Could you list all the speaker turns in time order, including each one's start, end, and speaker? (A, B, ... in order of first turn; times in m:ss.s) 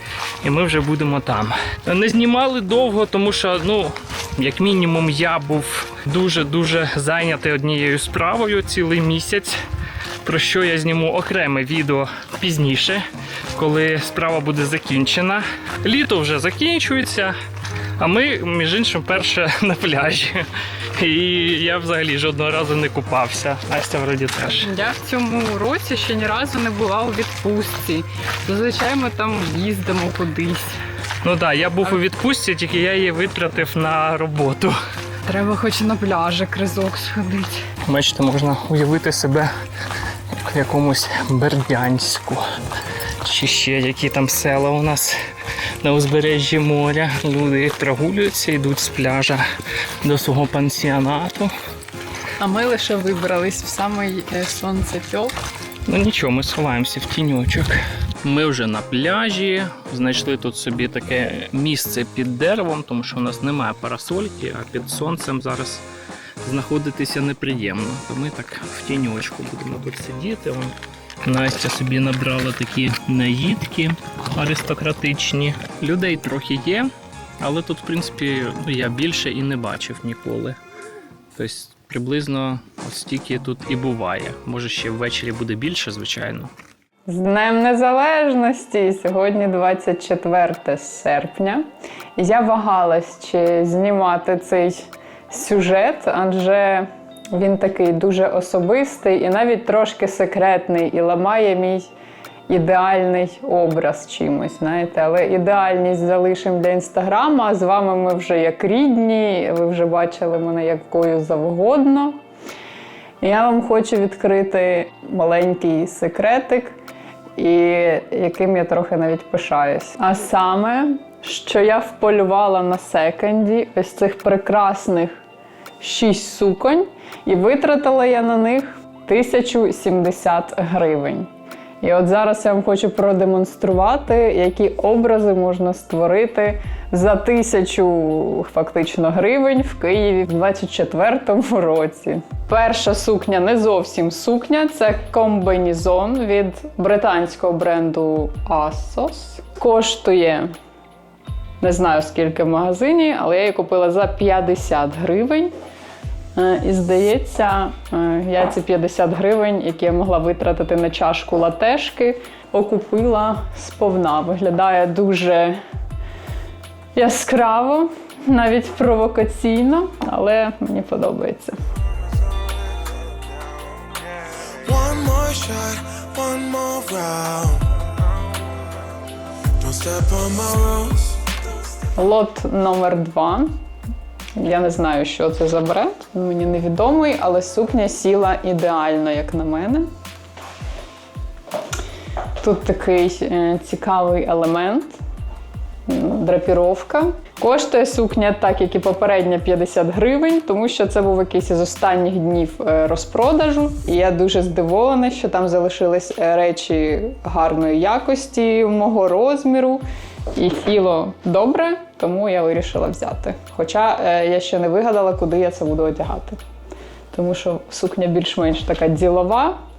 0:00.4-0:09.6 A
0:10.2-0:13.0 A
0:13.6-0:17.4 A
0:18.0-0:20.4 A
0:21.0-0:24.7 A
0:24.6-0:30.7 B
0:31.2-0:34.8 A
0:35.3-0:37.6 B
0:37.9-0:39.5 A
0:40.4-0:42.4 A
0:43.2-0:45.2 A
0:45.8-0:49.4 A
0:50.0-0:51.5 A
0:52.4-0:55.3 B
0:55.9-1:05.8 A
1:06.4-1:16.9 A
1:17.4-1:20.6 A
1:21.4-1:26.5 A
1:27.1-1:31.6 B
1:32.2-1:41.9 B
1:42.5-1:52.2 B
1:53.2-1:56.8 B
1:57.4-2:05.2 B
2:05.8-2:11.3 B
2:11.8-2:30.5 B
2:31.6-2:35.5 B
2:36.4-2:45.6 B
2:47.0-2:51.6 B
2:54.6-2:57.7 C
2:59.6-3:01.2 C
3:02.0-3:03.6 B
3:04.4-3:09.9 B
3:12.4-3:15.0 B
3:15.9-3:29.8 B
3:30.3-3:36.4 B
3:37.1-3:39.6 B